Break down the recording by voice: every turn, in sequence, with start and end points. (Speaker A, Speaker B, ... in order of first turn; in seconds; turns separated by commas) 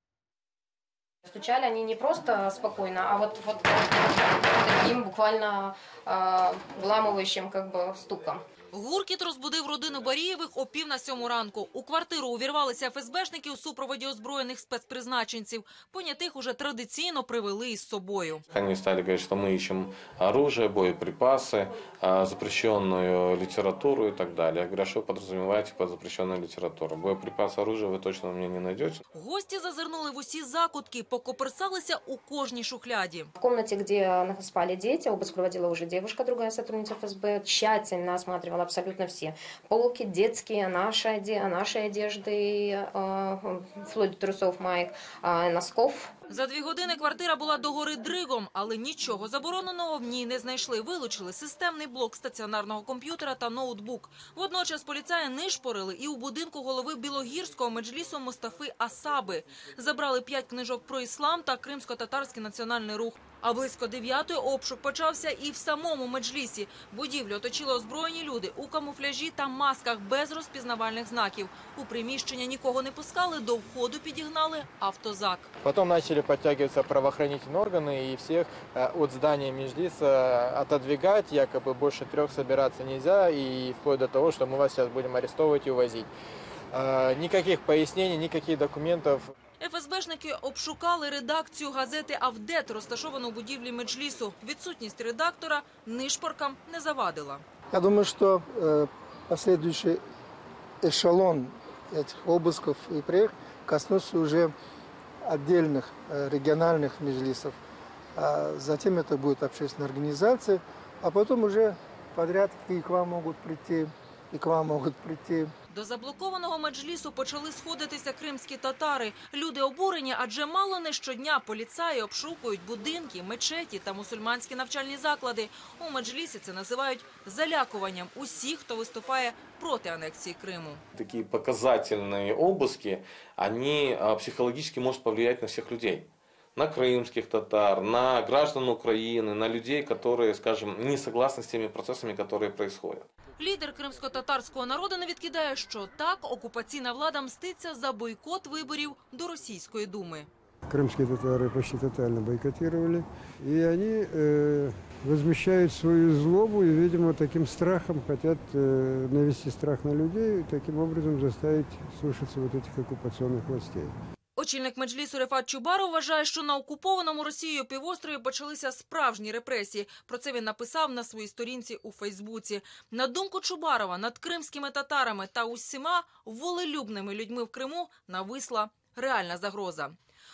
Speaker A: 1.2-8.4, Speaker B: 8.7-18.4, Speaker C: 18.5-29.0, Speaker B: 29.1-33.3, Speaker A: 33.4-46.1, Speaker B: 46.3-75.5, Speaker D: 75.6-86.1, Speaker D: 86.7-89.3, Speaker B: 89.6-97.4, Speaker E: 97.7-100.0, Speaker E: 100.8-104.5, Speaker E: 105.2-107.6, Speaker E: 108.2-115.5, Speaker B: 115.7-130.8, Speaker C: 130.9-143.1, Speaker B: 143.4-150.3, Speaker F: 150.7-163.9, Speaker B: 164.4-179.9